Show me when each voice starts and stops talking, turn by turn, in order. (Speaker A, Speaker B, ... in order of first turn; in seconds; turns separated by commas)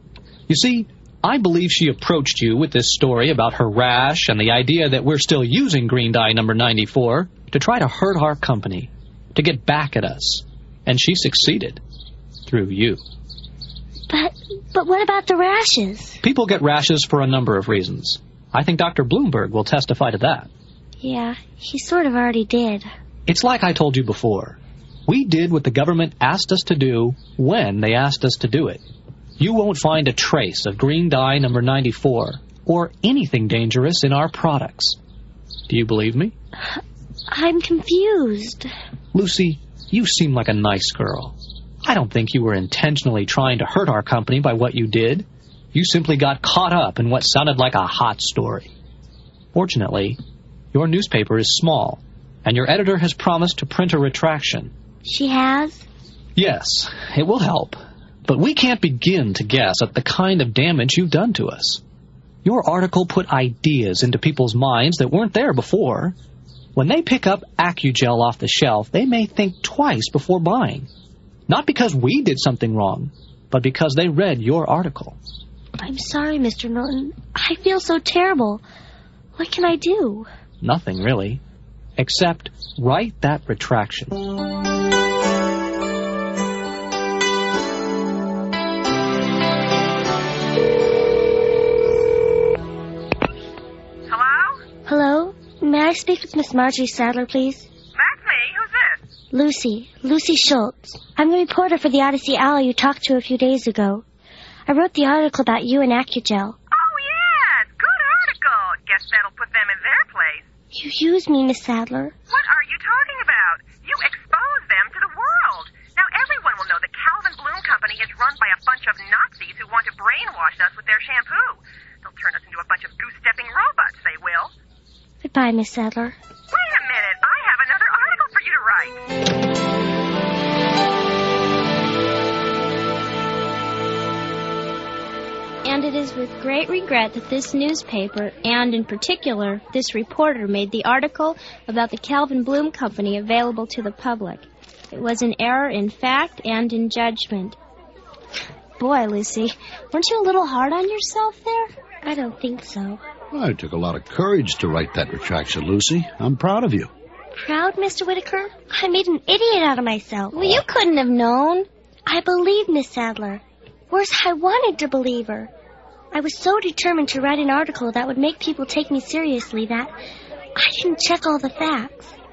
Speaker A: 0.5-11.8, Speaker A: 12.5-13.0, Speaker B: 14.1-16.2, Speaker A: 16.2-20.5, Speaker B: 21.0-22.9, Speaker A: 23.3-28.8, Speaker A: 29.4-35.0, Speaker A: 35.7-36.3, Speaker B: 37.3-38.7, Speaker A: 39.1-48.7, Speaker A: 49.5-50.2, Speaker A: 50.7-54.7, Speaker B: 55.0-55.8, Speaker A: 56.4-61.8, Speaker A: 62.4-66.1, Speaker A: 66.7-70.9, Speaker A: 71.5-75.2, Speaker B: 75.8-78.6, Speaker B: 79.4-80.3, Speaker A: 80.6-81.4, Speaker A: 82.0-84.2, Speaker C: 94.1-94.6, Speaker B: 94.8-97.7, Speaker C: 98.0-99.1, Speaker B: 99.3-104.0, Speaker B: 104.7-106.5, Speaker C: 106.7-110.4, Speaker B: 110.7-112.1, Speaker C: 112.3-124.5, Speaker B: 125.2-126.2, Speaker C: 126.5-129.0, Speaker D: 135.6-147.6, Speaker D: 148.8-151.7, Speaker B: 152.0-153.0, Speaker E: 153.3-156.9, Speaker B: 157.3-160.6, Speaker D: 160.3-161.7, Speaker B: 162.1-165.5, Speaker B: 166.1-169.9, Speaker B: 170.6-172.1